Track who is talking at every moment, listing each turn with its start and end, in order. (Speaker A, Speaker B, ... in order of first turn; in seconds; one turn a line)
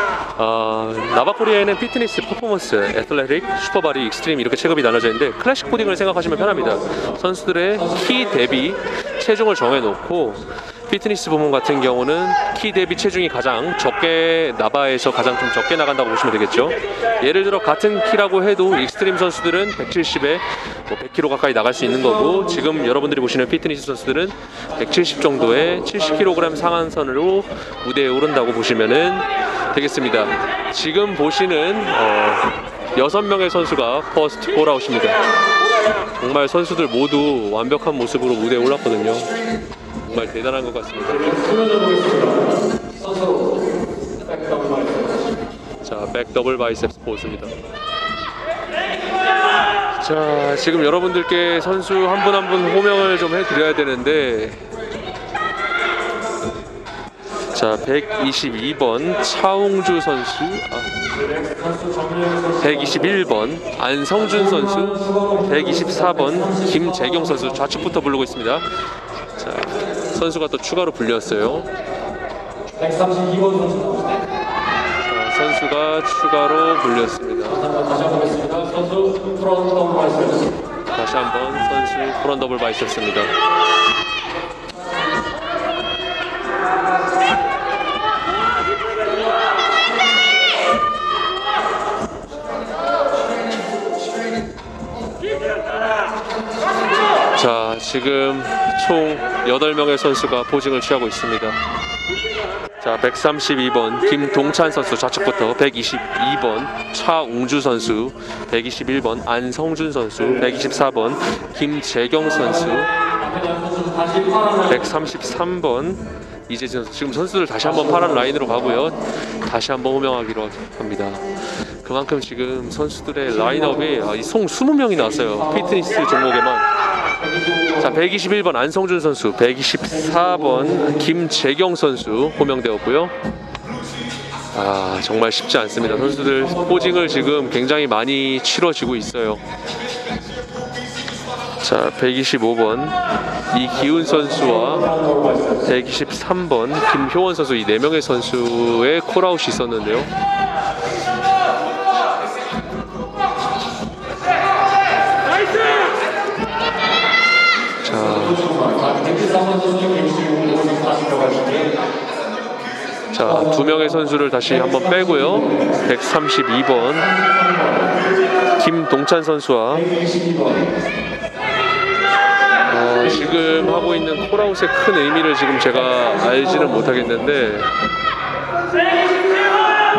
Speaker A: 0.4-35.2
Speaker A: 36.2-39.3
Speaker A: 40.0-41.4
Speaker B: 41.2-43.6
Speaker B: 44.2-45.1
Speaker A: 45.8-47.5
Speaker A: 50.0-54.6
Speaker A: 57.5-61.0
Speaker B: 61.3-63.0
Speaker A: 62.6-68.7
Speaker B: 64.4-67.7
Speaker A: 69.4-71.7
Speaker B: 72.8-74.2
Speaker A: 75.0-77.7
Speaker B: 77.6-80.5
Speaker A: 80.9-83.3
Speaker A: 97.3-101.6
Speaker A: 102.8-112.9
Speaker B: 113.2-114.7
Speaker A: 114.7-126.7
Speaker B: 127.3-127.8
Speaker A: 127.8-133.1
Speaker B: 130.2-130.8
Speaker A: 134.5-139.4
Speaker B: 136.3-137.1
Speaker A: 141.6-143.0
Speaker A: 143.5-145.0
Speaker B: 144.2-145.6
Speaker A: 145.6-150.1
Speaker A: 157.8-158.5
Speaker B: 158.2-161.8
Speaker A: 163.1-167.1
Speaker B: 167.1-167.8
Speaker A: 168.6-169.9
Speaker B: 169.9-170.6
Speaker A: 172.7-177.7